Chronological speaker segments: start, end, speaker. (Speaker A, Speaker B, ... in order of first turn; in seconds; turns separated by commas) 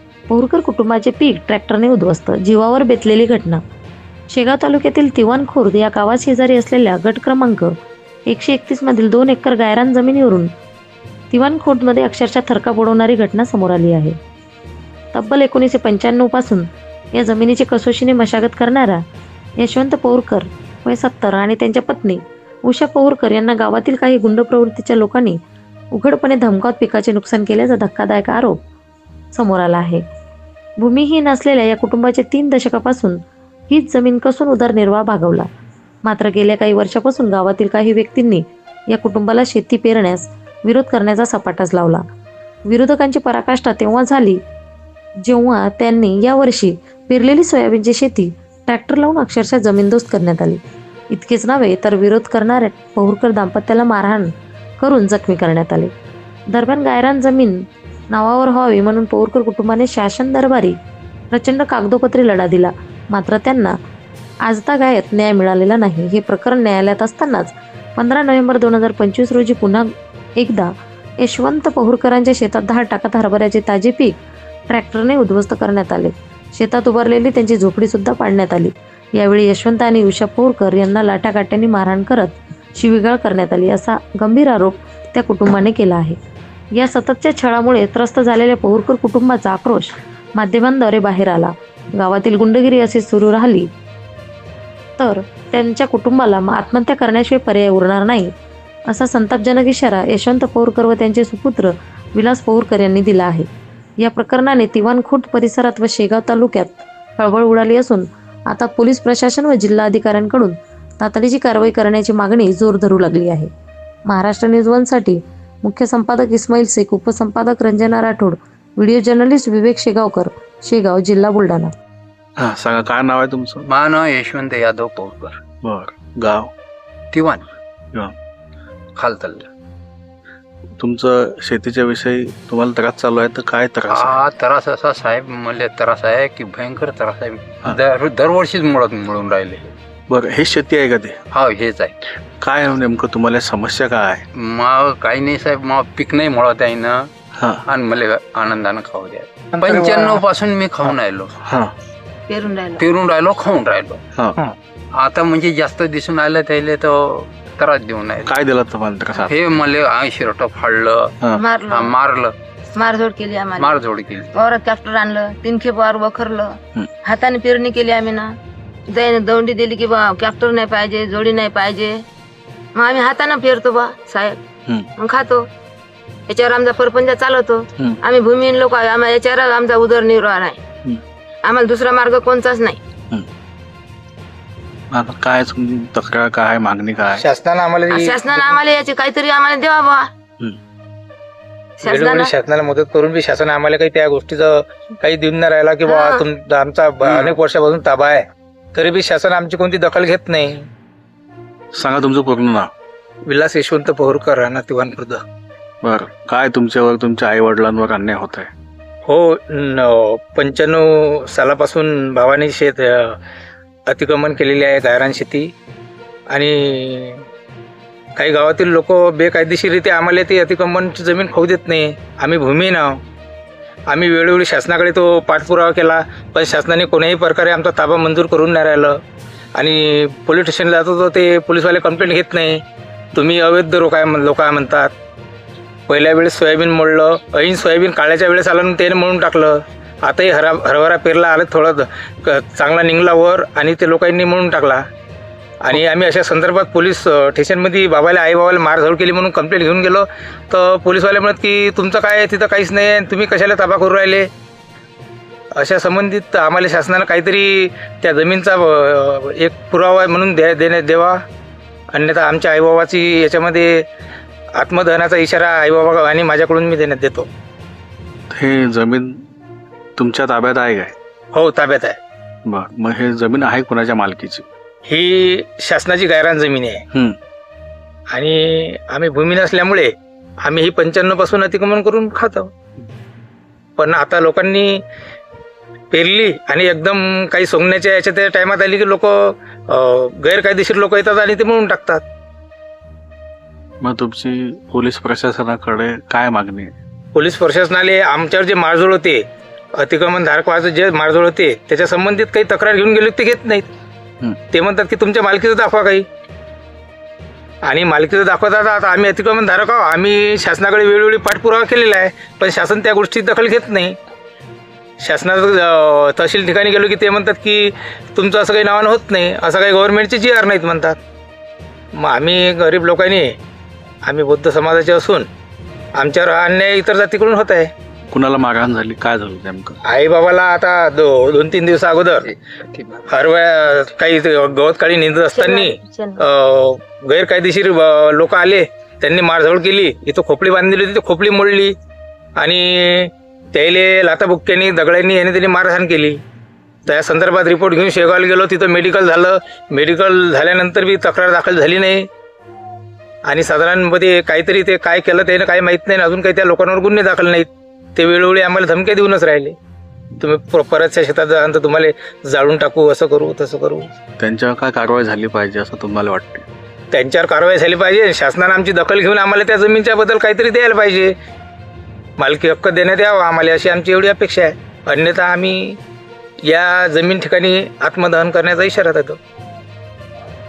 Speaker A: 0.3-3.6, Speaker A: 4.3-7.7, Speaker A: 8.3-10.5, Speaker A: 11.3-14.2, Speaker A: 15.1-19.0, Speaker A: 19.6-25.4, Speaker A: 25.9-28.6, Speaker A: 29.3-30.0, Speaker A: 30.8-35.5, Speaker A: 36.0-42.0, Speaker A: 42.7-44.4, Speaker A: 45.2-55.9, Speaker A: 56.5-60.8, Speaker A: 61.3-63.7, Speaker A: 64.4-74.2, Speaker A: 74.7-86.2, Speaker A: 86.8-93.7, Speaker A: 95.0-98.3, Speaker A: 98.9-103.5, Speaker A: 104.0-113.5, Speaker A: 114.1-121.7, Speaker B: 122.4-123.7, Speaker C: 123.7-125.4, Speaker B: 125.6-126.5, Speaker C: 127.1-127.5, Speaker C: 129.0-129.5, Speaker B: 130.8-134.2, Speaker C: 133.9-139.7, Speaker B: 140.1-141.2, Speaker C: 141.3-141.9, Speaker B: 142.4-144.2, Speaker C: 144.3-147.1, Speaker B: 147.4-147.6, Speaker C: 147.7-151.3, Speaker B: 151.4-151.7, Speaker D: 152.3-152.9, Speaker C: 152.8-154.0, Speaker C: 154.9-158.3, Speaker B: 158.2-159.4, Speaker C: 159.2-162.3, Speaker D: 161.3-161.9, Speaker D: 162.7-168.4, Speaker C: 163.6-164.3, Speaker D: 168.9-172.1, Speaker D: 172.8-174.4, Speaker D: 175.0-175.5, Speaker D: 176.3-180.6, Speaker D: 181.4-182.8, Speaker B: 184.9-187.2, Speaker E: 187.2-188.5, Speaker D: 187.9-190.1, Speaker D: 191.8-192.3, Speaker E: 191.8-200.7, Speaker D: 195.8-196.3, Speaker B: 201.8-202.7, Speaker E: 203.3-205.2, Speaker B: 205.8-208.5, Speaker E: 209.1-213.2, Speaker E: 213.9-215.5, Speaker E: 216.3-217.2, Speaker E: 218.2-223.0, Speaker E: 223.9-229.0, Speaker E: 229.6-232.6, Speaker E: 233.1-234.9, Speaker E: 235.9-244.8, Speaker E: 245.6-254.3, Speaker E: 255.6-261.2, Speaker E: 261.9-263.9, Speaker E: 264.6-267.3, Speaker B: 268.3-269.2, Speaker B: 270.0-270.9, Speaker E: 271.3-272.0, Speaker B: 272.5-274.5, Speaker E: 274.9-276.8, Speaker E: 278.1-282.5, Speaker E: 283.8-284.8, Speaker E: 285.9-292.0, Speaker B: 293.8-296.7, Speaker E: 297.1-299.2, Speaker E: 299.8-303.7, Speaker E: 304.5-306.1, Speaker E: 307.6-314.0, Speaker E: 315.0-321.0, Speaker E: 321.9-323.4, Speaker E: 324.0-325.3, Speaker E: 326.0-327.7, Speaker B: 328.1-329.8, Speaker E: 329.9-332.3, Speaker C: 332.2-333.1, Speaker E: 333.1-341.8, Speaker D: 335.3-336.2, Speaker E: 342.4-346.2, Speaker E: 346.9-352.1, Speaker E: 353.2-359.6, Speaker E: 360.2-363.9, Speaker B: 364.2-366.5, Speaker E: 366.9-371.1, Speaker E: 372.2-375.8, Speaker E: 376.5-379.2